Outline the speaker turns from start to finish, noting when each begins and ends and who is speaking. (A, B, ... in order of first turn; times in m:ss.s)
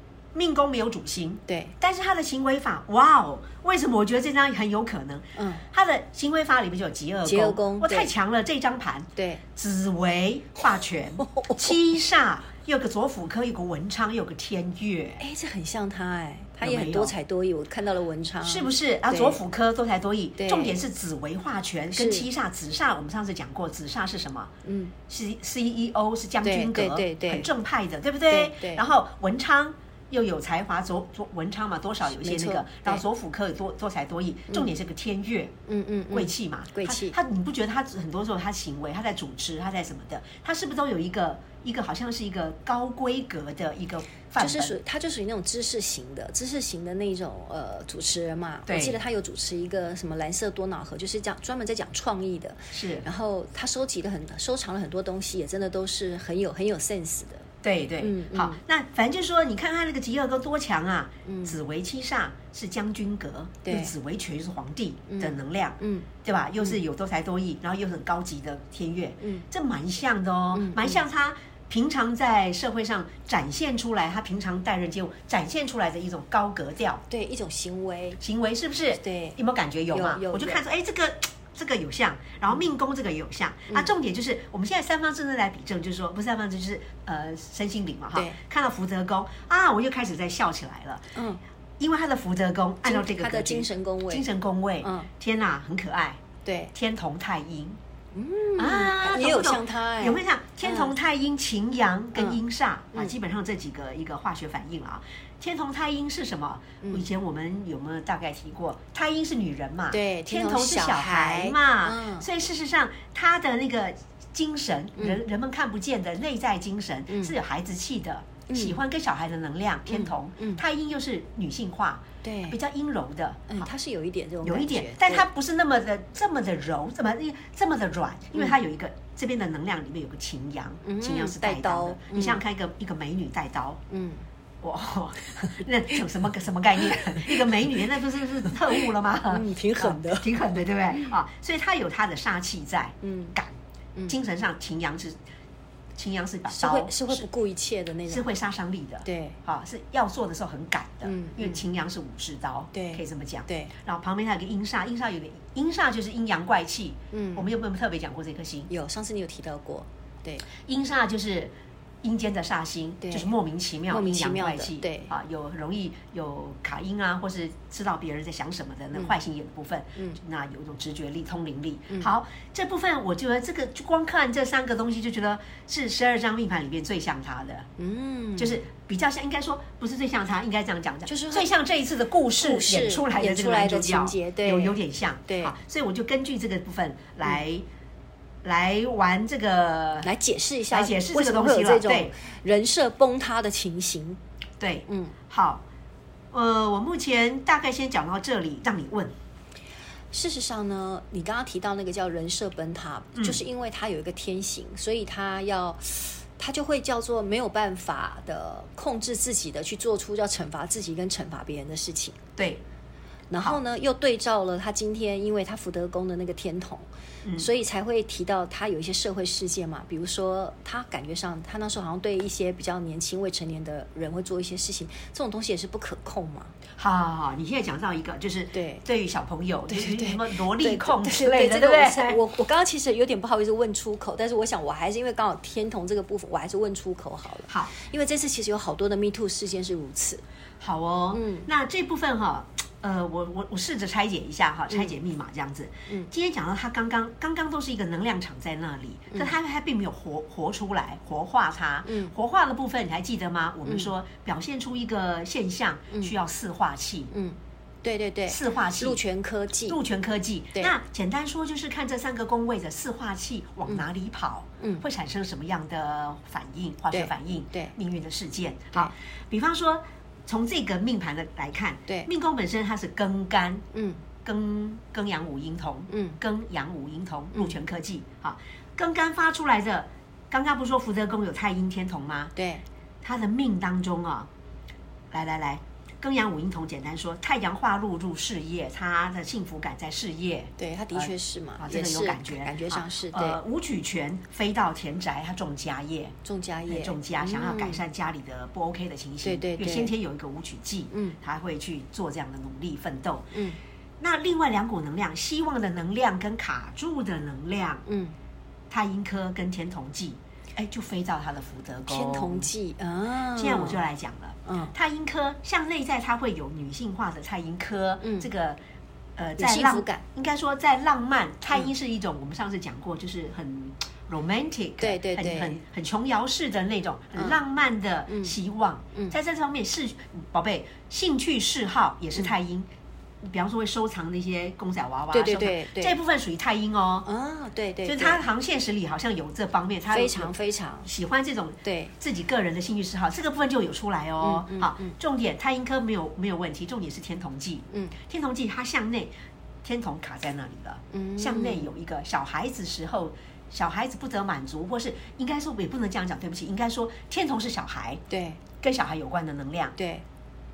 0:00.3-0:15.2 A
0:01.5-0:01.8 B
0:05.4-0:05.6 B
0:07.2-0:08.1 B
0:09.2-0:09.4 B
0:11.2-0:11.8 B
0:15.2-0:19.4 B
0:16.6-0:17.1 A
0:18.4-0:24.5 A
0:20.4-0:20.8 B
0:22.0-0:22.3 B
0:24.6-0:24.9 B
0:25.1-0:35.5 A
0:26.4-0:27.5 B
0:28.3-0:28.8 B
0:32.2-0:33.0 B
0:35.7-0:37.2 B
0:36.1-0:44.8 A
0:44.4-0:57.5 B
0:48.7-0:49.0 A
0:52.7-0:53.1 A
0:57.6-1:17.0 A
0:58.0-0:58.6 B
1:01.2-1:01.6 B
1:03.6-1:03.9 B
1:05.1-1:06.1 B
1:10.5-1:11.0 B
1:17.1-1:18.2 B
1:18.2-1:31.1 A
1:19.0-1:19.4 B
1:19.9-1:20.6 B
1:31.2-1:31.4 B
1:31.8-1:36.2 A
1:32.8-1:34.3 B
1:34.8-1:35.1 B
1:36.4-1:36.7 B
1:36.7-1:37.8 A
1:38.1-1:40.9 B
1:38.6-2:03.7 A
1:49.9-1:52.3 B
1:57.1-1:57.3 B
1:58.5-1:58.8 B
1:59.9-2:00.6 B
2:02.2-2:02.6 B
2:03.5-2:05.3 B
2:04.4-2:13.8 A
2:10.8-2:12.4 B
2:13.9-2:14.2 B
2:14.6-2:23.5 A
2:19.3-2:20.3 B
2:23.0-2:23.4 B
2:24.1-2:25.2 A
2:26.0-2:27.3 A
2:26.5-2:28.3 B
2:28.1-2:38.7 A
2:29.0-2:29.4 B
2:31.0-2:31.6 B
2:32.7-2:33.7 B
2:37.1-2:37.5 B
2:38.7-2:40.4 B
2:40.6-2:41.5 A
2:42.0-2:57.7 A
2:43.0-2:43.3 B
2:43.9-2:45.1 B
2:57.8-2:58.6 B
2:58.4-3:07.6 A
3:01.1-3:01.5 B
3:02.4-3:05.5 B
3:08.4-3:10.1 A
3:10.0-3:14.2 B
3:10.7-3:12.1 A
3:14.6-3:15.6 A
3:14.9-3:15.2 B
3:16.3-3:19.1 A
3:20.1-3:32.2 B
3:32.4-3:32.6 A
3:33.3-3:36.9 B
3:37.4-3:46.5 B
3:46.8-3:52.2 A
3:48.5-3:48.8 B
3:49.7-4:00.2 B
3:57.5-3:57.7 A
4:00.6-4:17.1 A
4:01.1-4:01.5 B
4:11.8-4:12.1 B
4:17.1-4:19.8 B
4:18.3-4:19.0 A
4:19.7-4:33.6 A
4:26.9-4:27.8 B
4:33.7-4:34.0 B
4:34.2-4:42.3 A
4:35.9-4:36.2 B
4:42.4-4:42.6 B
4:43.0-4:44.3 A
4:45.1-4:56.2 A
4:50.6-4:53.4 B
4:56.2-4:57.8 B
4:56.7-5:03.3 A
4:59.2-4:59.9 B
5:03.3-5:03.6 B
5:04.0-5:07.8 A
5:07.9-5:08.1 B
5:08.7-5:12.5 A
5:11.9-5:13.8 B
5:13.3-5:18.6 A
5:14.5-5:14.8 B
5:18.0-5:18.3 B
5:19.2-5:32.7 A
5:19.4-5:20.0 B
5:24.8-5:25.6 B
5:28.1-5:28.4 B
5:33.2-5:37.1 A
5:35.1-5:36.0 B
5:37.1-5:38.2 B
5:37.8-5:40.4 A
5:39.9-5:40.9 B
5:40.9-5:49.1 A
5:41.6-5:41.9 B
5:44.2-5:45.0 B
5:47.7-5:48.0 B
5:49.6-5:58.0 A
5:50.9-5:51.7 B
5:58.1-5:58.4 B
5:58.6-5:59.7 A
5:59.8-6:00.0 B